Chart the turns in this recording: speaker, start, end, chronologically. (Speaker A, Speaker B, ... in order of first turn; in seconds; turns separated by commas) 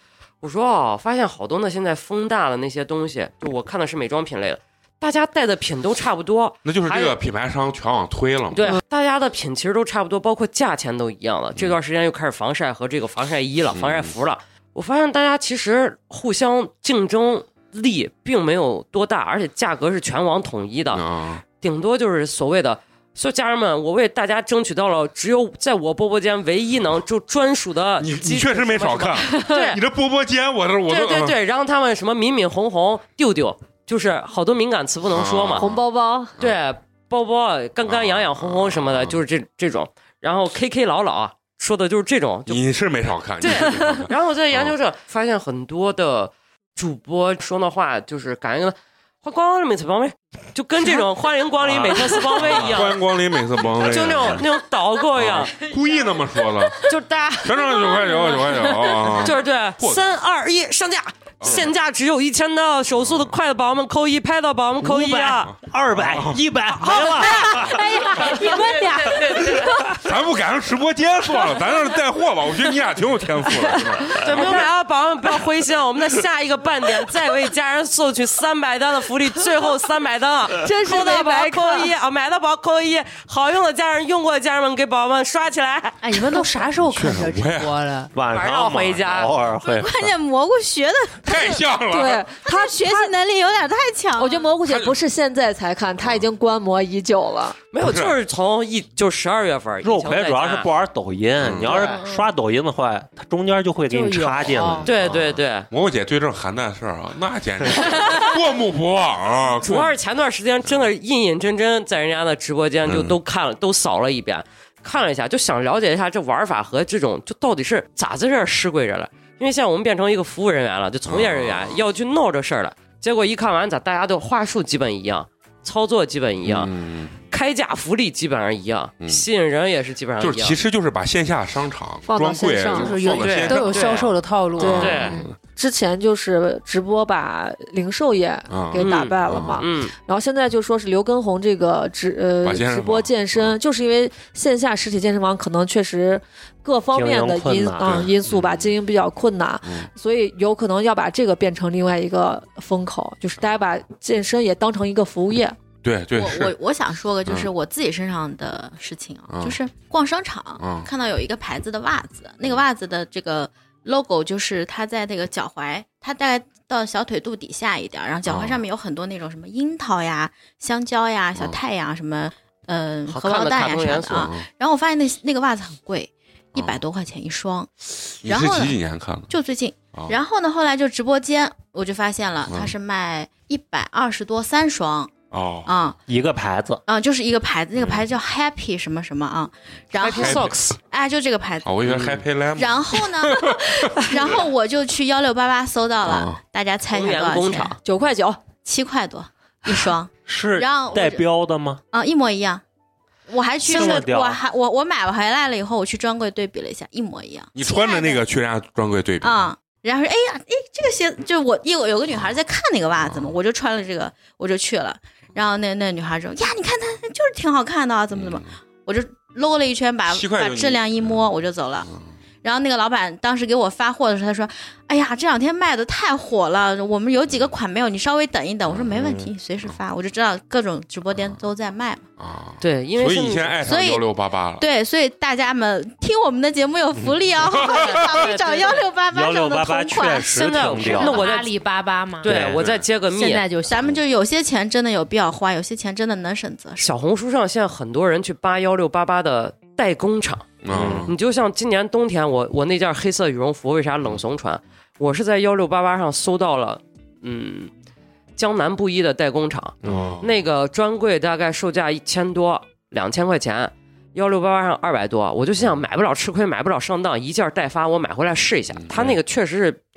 Speaker A: 0.4-7.2, Speaker B: 6.6-8.7, Speaker A: 8.5-21.0, Speaker B: 13.7-14.1, Speaker B: 20.9-21.4, Speaker A: 21.6-29.8, Speaker B: 28.0-31.4, Speaker C: 29.4-29.6, Speaker A: 30.9-35.7, Speaker B: 35.1-35.8, Speaker C: 35.6-36.3, Speaker A: 36.4-42.6, Speaker B: 37.9-39.2, Speaker B: 42.5-44.7, Speaker A: 43.4-53.0, Speaker D: 51.6-52.1, Speaker B: 52.3-54.5, Speaker A: 53.7-55.6, Speaker B: 55.1-56.9, Speaker A: 56.8-65.5, Speaker B: 57.4-60.0, Speaker B: 61.4-61.7, Speaker B: 63.0-63.3, Speaker D: 64.8-68.1, Speaker B: 65.5-66.4, Speaker A: 66.8-70.0, Speaker E: 68.1-68.9, Speaker C: 68.2-68.7, Speaker D: 69.2-69.7, Speaker B: 69.9-74.5, Speaker A: 74.2-86.4, Speaker C: 74.3-74.6, Speaker C: 80.6-81.9, Speaker E: 86.0-88.1, Speaker B: 86.8-87.8, Speaker D: 88.1-90.1, Speaker A: 88.3-89.3, Speaker F: 89.6-91.6, Speaker B: 91.2-92.3, Speaker C: 91.9-93.1, Speaker F: 92.4-94.5, Speaker C: 94.2-97.6, Speaker B: 94.6-95.0, Speaker A: 97.7-100.7, Speaker B: 97.8-98.2, Speaker D: 99.8-105.1, Speaker B: 101.4-101.9, Speaker A: 101.6-102.0, Speaker E: 103.9-104.9, Speaker B: 104.8-109.9, Speaker A: 104.8-105.7, Speaker A: 109.6-126.7, Speaker B: 112.8-113.2, Speaker B: 121.1-121.8, Speaker B: 126.4-127.1, Speaker A: 127.3-130.6, Speaker B: 130.2-135.3, Speaker C: 132.1-133.0, Speaker E: 132.7-135.1, Speaker A: 133.1-135.2, Speaker C: 134.6-155.6, Speaker B: 138.5-139.6, Speaker A: 138.8-139.9, Speaker B: 142.4-143.5, Speaker D: 146.9-148.1, Speaker B: 147.8-148.8, Speaker B: 149.6-149.9, Speaker B: 155.8-156.5, Speaker F: 156.1-177.7, Speaker B: 159.3-159.6, Speaker B: 160.6-160.9, Speaker B: 168.3-168.6, Speaker A: 173.1-174.3, Speaker B: 174.0-174.5, Speaker B: 176.6-176.8, Speaker F: 178.2-178.8, Speaker B: 178.2-179.3, Speaker F: 179.3-185.1, Speaker B: 179.9-180.2, Speaker B: 182.5-182.7, Speaker B: 185.3-185.7, Speaker F: 185.7-186.0, Speaker D: 186.1-186.8, Speaker F: 186.9-191.9, Speaker A: 190.0-190.8, Speaker B: 190.1-190.6, Speaker B: 191.6-194.3, Speaker D: 191.9-192.2, Speaker F: 192.5-197.8, Speaker B: 196.0-196.4, Speaker A: 196.9-197.8, Speaker C: 197.8-198.4, Speaker F: 198.6-201.2, Speaker D: 200.3-201.8, Speaker F: 201.9-202.6, Speaker F: 203.3-208.2, Speaker D: 203.7-204.4, Speaker B: 207.6-209.5, Speaker F: 209.2-221.9, Speaker B: 213.0-213.3, Speaker B: 218.1-218.4, Speaker B: 220.1-221.2, Speaker F: 222.4-232.0, Speaker B: 228.7-229.0, Speaker D: 229.0-229.3, Speaker B: 232.2-234.6, Speaker A: 232.6-233.6, Speaker F: 233.6-234.1, Speaker F: 234.6-241.2, Speaker B: 237.5-238.3, Speaker A: 238.1-238.8, Speaker D: 239.1-241.3, Speaker A: 240.3-241.5, Speaker E: 240.8-242.3, Speaker A: 242.2-243.4, Speaker D: 242.2-242.6, Speaker B: 242.3-242.9, Speaker E: 243.1-243.9, Speaker F: 243.6-246.9, Speaker A: 246.8-257.7, Speaker B: 250.6-251.1, Speaker D: 250.7-251.1, Speaker A: 258.4-269.8, Speaker B: 259.8-260.3, Speaker D: 259.9-260.1, Speaker B: 268.8-269.1